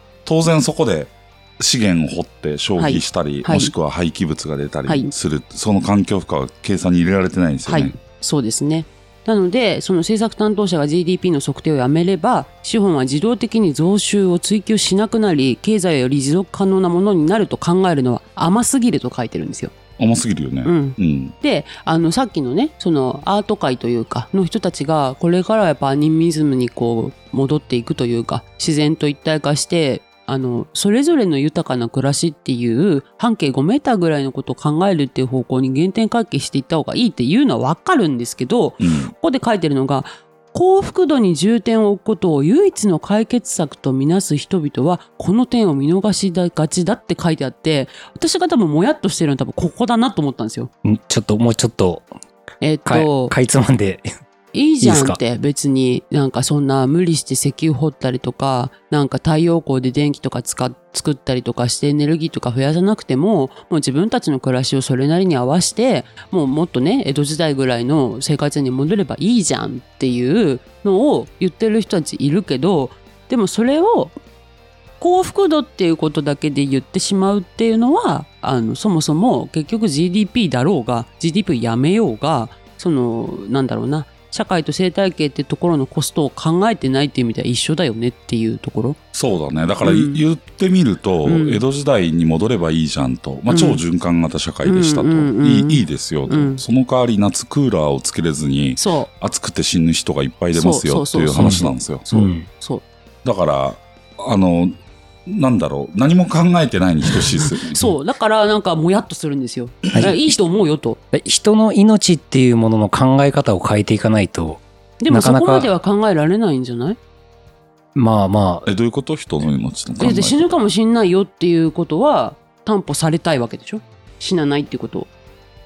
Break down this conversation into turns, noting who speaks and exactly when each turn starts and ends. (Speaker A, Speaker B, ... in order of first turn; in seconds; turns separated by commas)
Speaker A: 0.2-7.9, Speaker B: 2.8-3.7, Speaker B: 4.9-5.1, Speaker B: 7.7-19.7, Speaker A: 20.0-21.3, Speaker B: 20.6-50.7, Speaker A: 38.8-39.1, Speaker C: 50.8-52.1, Speaker B: 52.6-53.3, Speaker C: 52.8-54.1, Speaker B: 54.5-74.1, Speaker C: 54.8-55.2, Speaker B: 75.0-89.0, Speaker A: 89.1-102.0, Speaker B: 89.8-90.2, Speaker B: 91.2-91.6, Speaker B: 93.5-93.8, Speaker B: 94.6-96.6, Speaker B: 98.8-99.1, Speaker B: 100.5-102.8, Speaker C: 101.4-102.5, Speaker A: 103.2-107.8, Speaker B: 107.7-111.0, Speaker A: 109.8-110.2, Speaker C: 111.1-115.7, Speaker B: 115.0-117.0, Speaker C: 117.9-118.7, Speaker A: 118.7-120.6, Speaker B: 120.0-125.1